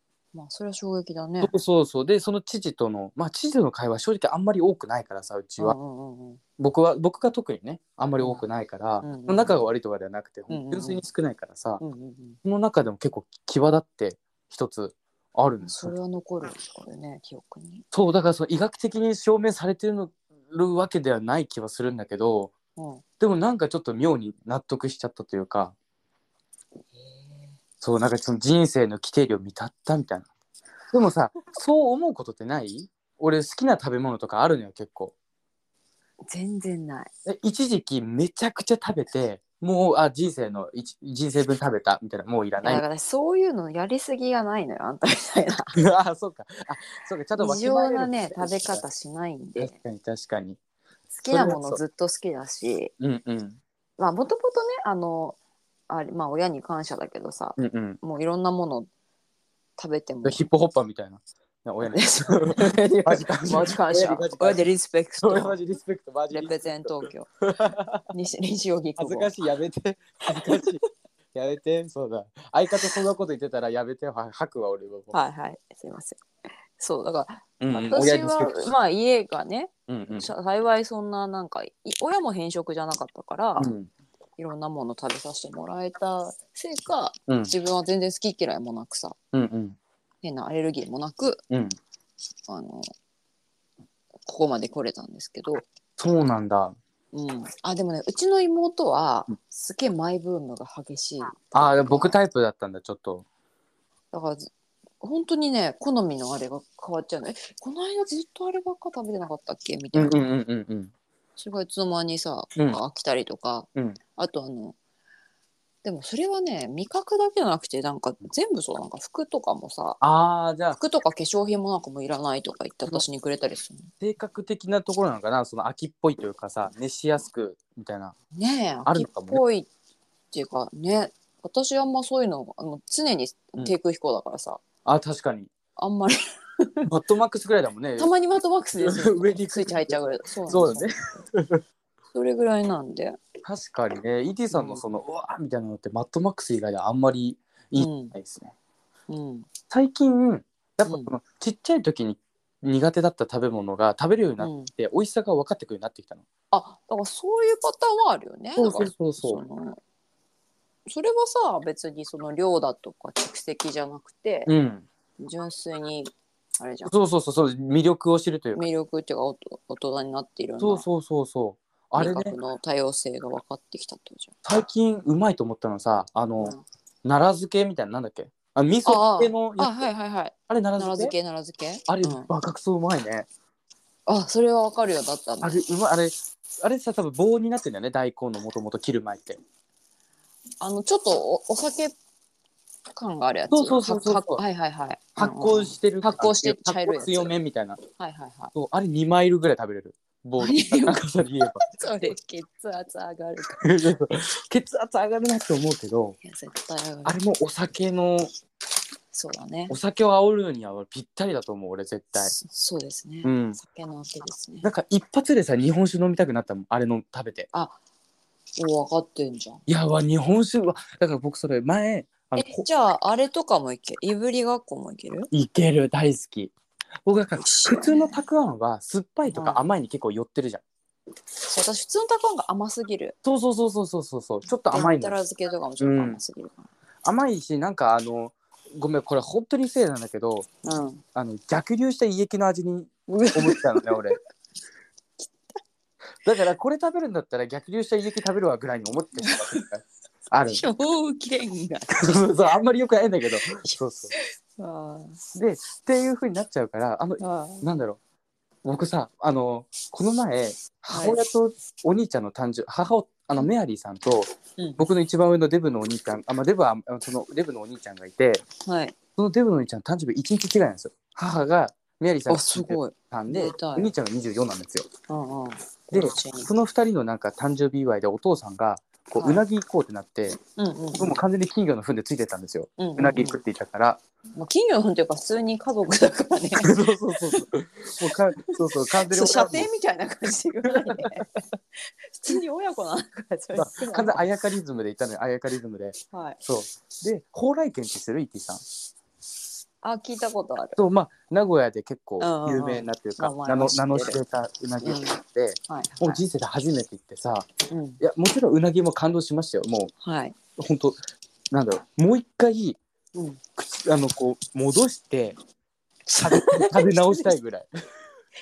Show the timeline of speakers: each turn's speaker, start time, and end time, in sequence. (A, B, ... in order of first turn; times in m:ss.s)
0:00.3-0:01.6 A
0:01.4-0:05.8 B
0:05.6-0:06.4 A
0:06.6-0:11.8 B
0:09.0-0:09.6 A
0:10.5-0:11.0 A
0:11.8-0:12.4 A
0:12.4-0:15.9 B
0:15.6-0:17.8 A
0:17.9-0:22.5 B
0:22.8-0:23.0 A
0:23.2-0:25.7 B
0:27.0-0:27.6 A
0:27.8-0:30.3 B
0:30.9-0:35.1 B
0:36.2-0:37.1 A
0:37.2-0:42.8 B
0:42.6-0:45.8 A
0:45.7-0:48.8 B
0:47.4-0:49.7 A
0:49.6-0:50.6 B
0:51.1-0:52.9 A
0:51.3-0:51.8 B
0:53.0-0:53.6 B
0:54.0-0:55.4 A
0:55.9-0:58.9 A
0:57.6-0:58.0 B
0:59.8-1:00.4 A
1:00.2-1:04.6 B
1:01.8-1:05.6 A
1:05.2-1:08.1 B
1:06.3-1:07.3 A
1:08.1-1:09.3 A
1:09.0-1:10.8 B
1:10.4-1:10.8 A
1:11.3-1:15.1 B
1:15.1-1:16.2 A
1:16.8-1:23.7 A
1:17.6-1:18.7 B
1:19.9-1:20.3 B
1:23.6-1:23.9 B
1:24.4-1:29.2 A
1:29.3-1:29.8 B
1:30.2-1:31.4 A
1:31.5-1:31.8 B
1:32.5-1:32.9 A
1:34.2-1:35.6 A
1:36.0-1:36.7 B
1:37.1-1:42.2 A
1:41.5-1:43.2 B
1:44.1-1:50.3 A
1:49.9-1:50.9 B
1:51.4-1:54.8 A
1:55.8-2:00.0 A
2:00.0-2:00.8 B
2:00.7-2:03.9 A
2:04.0-2:08.1 B
2:08.3-2:09.7 A
2:08.8-2:09.4 B
2:10.3-2:14.6 A
2:14.8-2:15.5 B
2:15.8-2:16.9 A
2:16.8-2:18.1 B
2:18.0-2:21.2 A
2:18.8-2:21.6 B
2:22.1-2:23.2 A
2:23.4-2:28.5 B
2:24.5-2:24.8 A
2:27.8-2:28.1 A
2:29.1-2:29.5 A
2:29.7-2:36.2 B
2:30.8-2:31.1 A
2:34.4-2:34.7 A
2:36.5-2:39.8 A
2:38.6-2:39.4 B
2:40.8-2:44.5 A
2:44.5-2:44.8 B
2:45.2-2:46.9 A
2:46.8-2:48.7 B
2:48.5-2:50.8 A
2:50.6-2:52.4 B
2:51.9-2:54.3 A
2:54.4-2:59.7 B
2:58.8-3:02.3 A
3:00.5-3:01.1 B
3:01.9-3:03.3 B
3:04.1-3:05.6 A
3:05.4-3:09.4 B
3:10.6-3:11.9 A
3:12.9-3:17.3 A
3:13.5-3:14.4 B
3:15.2-3:17.8 B
3:18.0-3:18.5 A
3:18.5-3:22.1 B
3:20.4-3:23.6 A
3:23.6-3:26.2 B
3:26.2-3:27.2 A
3:27.0-3:28.3 B
3:29.1-3:29.7 A
3:29.7-3:32.3 B
3:32.2-3:34.7 A
3:33.2-3:33.6 B
3:34.6-3:37.5 B
3:37.5-3:37.8 A
3:38.6-3:39.6 A
3:39.7-3:42.6 B
3:42.3-3:45.3 A
3:45.3-3:46.5 B
3:47.0-3:50.6 B
3:47.4-3:48.2 A
3:49.3-3:49.6 A
3:51.4-3:53.1 A
3:53.2-3:55.1 B
3:54.7-3:56.7 A
3:55.8-3:56.2 B
3:57.0-4:00.5 B
4:00.6-4:01.0 A
4:01.1-4:04.2 B
4:03.1-4:04.2 A
4:05.2-4:05.6 A
4:06.2-4:10.6 B
4:09.2-4:09.6 A
4:10.5-4:12.2 A
4:11.9-4:14.1 B
4:13.5-4:15.2 A
4:15.3-4:18.0 B
4:17.2-4:17.6 A
4:18.6-4:28.4 B
4:20.9-4:21.2 A
4:24.6-4:24.8 A
4:28.6-4:28.9 A
4:29.2-4:34.8 B
4:32.3-4:33.9 A
4:35.1-4:36.5 A
4:35.9-4:40.4 B
4:39.2-4:39.4 A
4:40.6-4:41.2 A
4:41.0-4:44.0 B
4:42.8-4:43.4 A
4:44.4-4:47.4 A
4:46.6-4:49.7 B
4:48.4-4:51.3 A
4:50.7-4:51.1 B
4:51.9-4:54.2 A
4:53.5-4:58.6 B
4:56.1-4:56.4 A
4:59.8-5:00.8 A
5:00.8-5:07.5 B
5:02.2-5:04.2 A
5:04.8-5:06.2 A
5:07.7-5:08.0 A
5:08.0-5:09.9 B
5:10.0-5:10.4 A
5:10.6-5:11.0 B
5:11.5-5:12.8 B
5:13.1-5:13.4 A
5:13.6-5:15.4 B
5:16.1-5:17.4 A
5:16.2-5:17.7 B